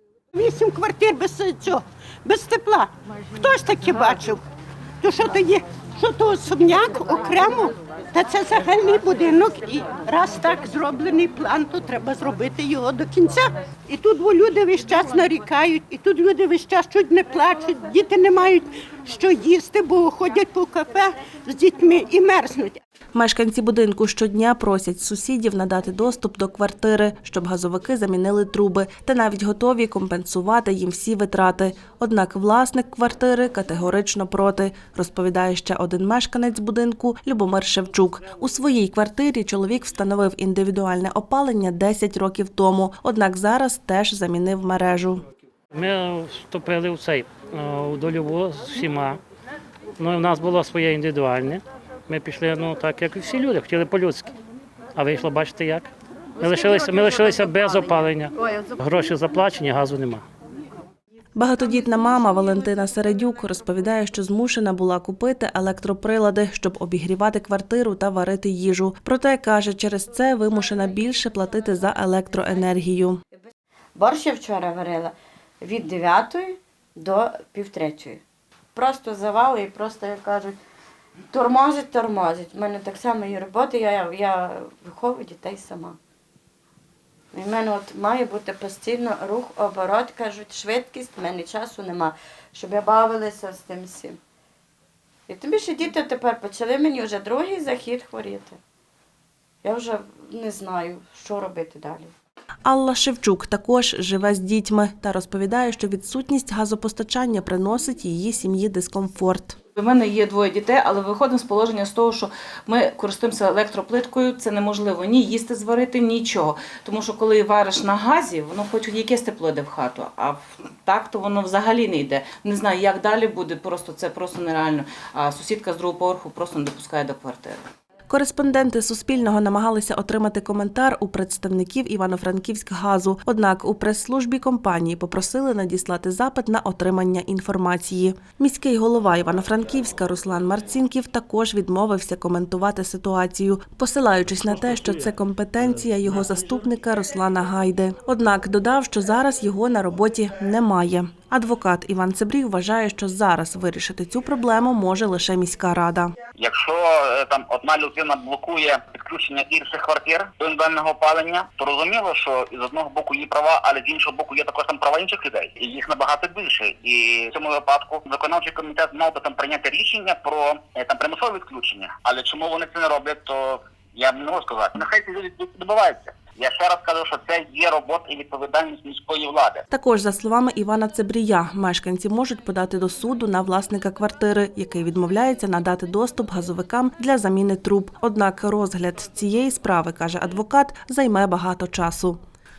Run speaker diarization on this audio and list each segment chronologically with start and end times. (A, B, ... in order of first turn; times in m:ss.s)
0:00.3-0:04.4 A
0:05.0-0:22.8 A
0:23.1-0:45.2 B
0:45.7-0:49.2 C
0:50.0-0:54.3 C
0:54.9-1:00.2 C
1:01.4-1:13.2 B
1:14.0-1:18.2 D
1:18.7-1:20.6 D
1:21.3-1:26.0 D
1:27.3-1:34.2 D
1:35.3-1:38.6 D
1:39.6-1:42.1 D
1:42.6-1:49.6 B
1:49.8-2:07.6 E
2:08.1-2:36.1 B
2:36.4-2:59.6 F
2:59.7-3:12.2 B